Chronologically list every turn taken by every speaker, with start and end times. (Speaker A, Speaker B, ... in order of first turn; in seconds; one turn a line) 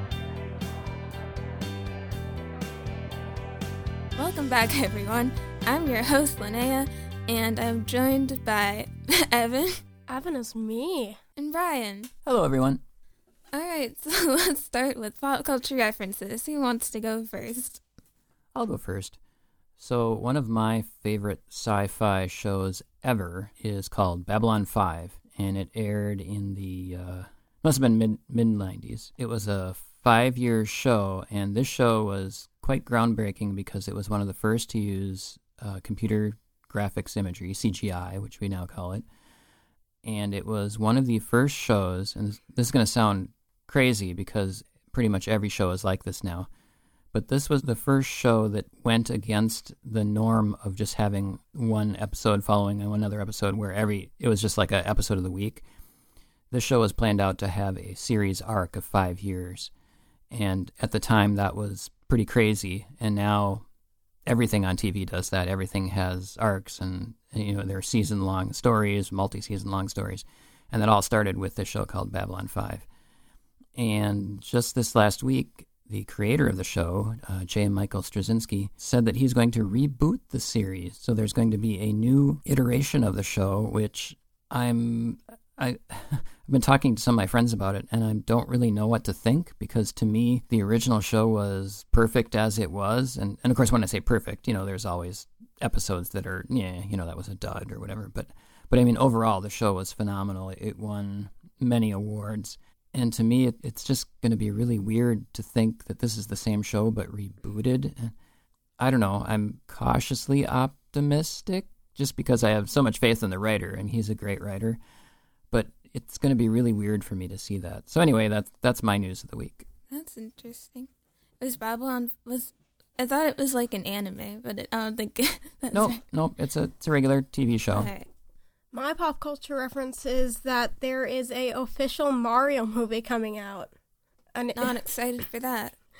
Speaker A: 4.2-9.8
Speaker B: 10.1-11.2
Speaker A: 11.4-12.1
Speaker C: 12.2-12.8
Speaker A: 13.5-17.8
Speaker C: 18.5-19.2
Speaker C: 19.8-39.0
Speaker C: 40.0-46.5
Speaker C: 47.1-55.6
Speaker C: 56.5-59.7
Speaker C: 60.3-63.6
Speaker C: 64.2-72.8
Speaker C: 73.8-108.1
Speaker C: 108.8-114.8
Speaker C: 115.5-119.6
Speaker A: 119.9-120.9
Speaker A: 121.4-126.0
Speaker C: 125.7-127.9
Speaker A: 127.7-128.1
Speaker B: 128.7-133.7
Speaker B: 134.3-134.8
Speaker A: 134.6-135.7